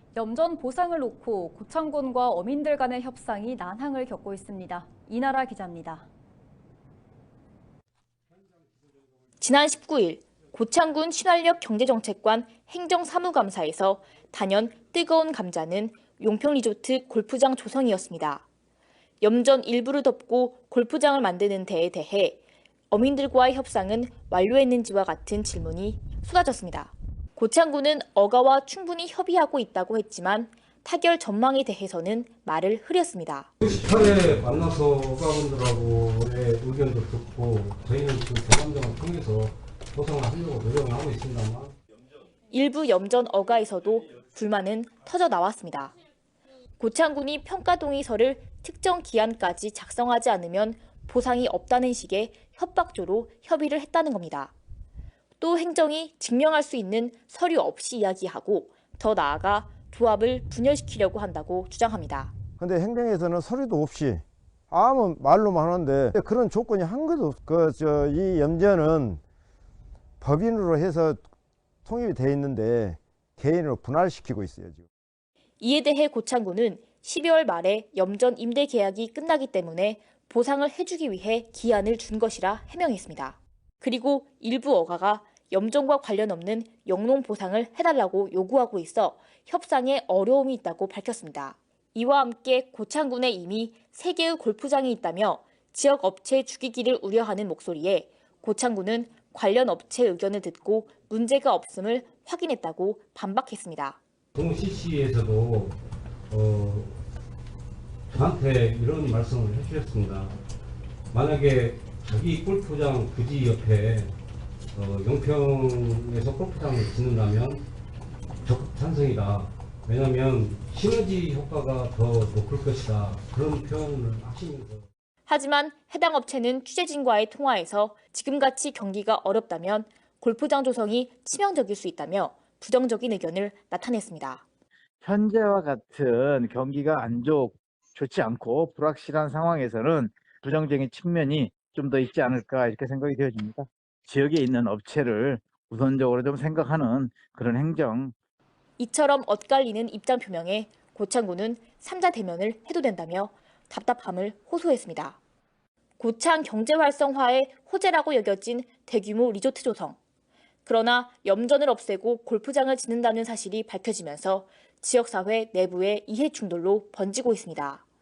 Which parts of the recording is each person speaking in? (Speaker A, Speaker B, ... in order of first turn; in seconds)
Speaker A: 0.1-6.1
Speaker B: 9.4-18.4, 19.2-33.5, 42.5-45.9, 46.8-54.5, 55.4-62.3, 75.6-104.0, 125.3-134.4, 148.8-155.2, 156.0-160.0, 160.7-167.8
Speaker C: 33.6-41.8, 104.3-105.8, 106.3-107.0, 108.1-110.4, 111.1-114.1, 114.8-117.7, 118.5-124.9
Speaker D: 62.6-69.2, 70.2-71.2, 71.8-74.8
Speaker E: 135.0-148.1